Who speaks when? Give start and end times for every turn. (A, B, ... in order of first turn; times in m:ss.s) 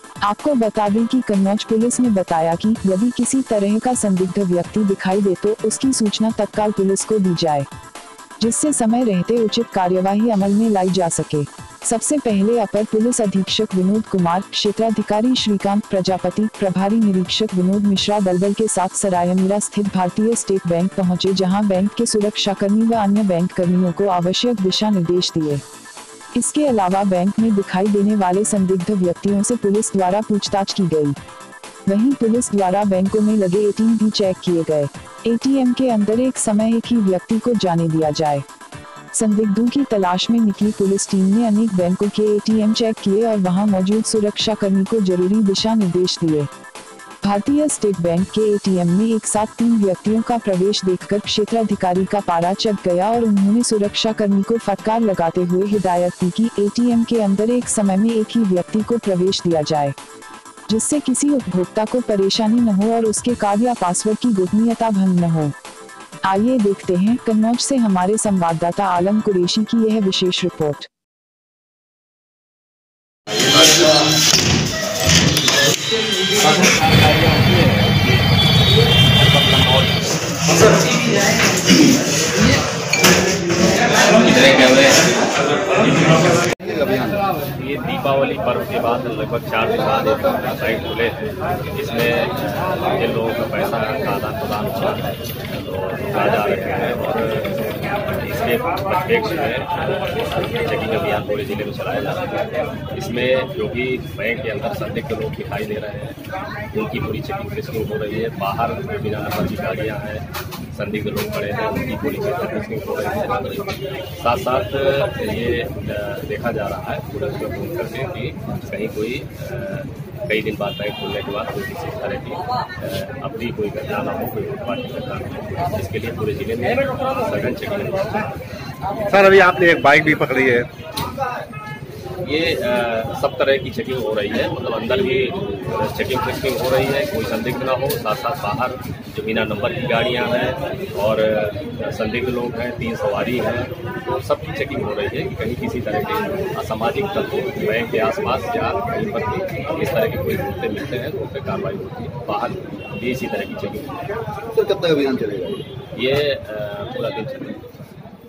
0:00.2-0:07.7 A
0:08.4-0:25.6 A
0:26.4-0:31.2 A
0:31.9-0:38.4 A
0:39.1-0:46.5 A
0:47.2-1:00.0 A
1:00.7-1:05.6 A
1:06.3-1:10.9 A
1:13.4-1:13.9 B
1:16.3-1:18.4 B
1:19.0-1:20.7 B
1:23.9-1:25.1 B
1:26.5-1:27.3 C
1:27.5-1:42.3 B
1:42.9-2:08.3 B
2:09.1-2:10.7 C
2:12.2-2:34.1 B
2:34.5-2:35.7 C
2:36.0-2:37.6 B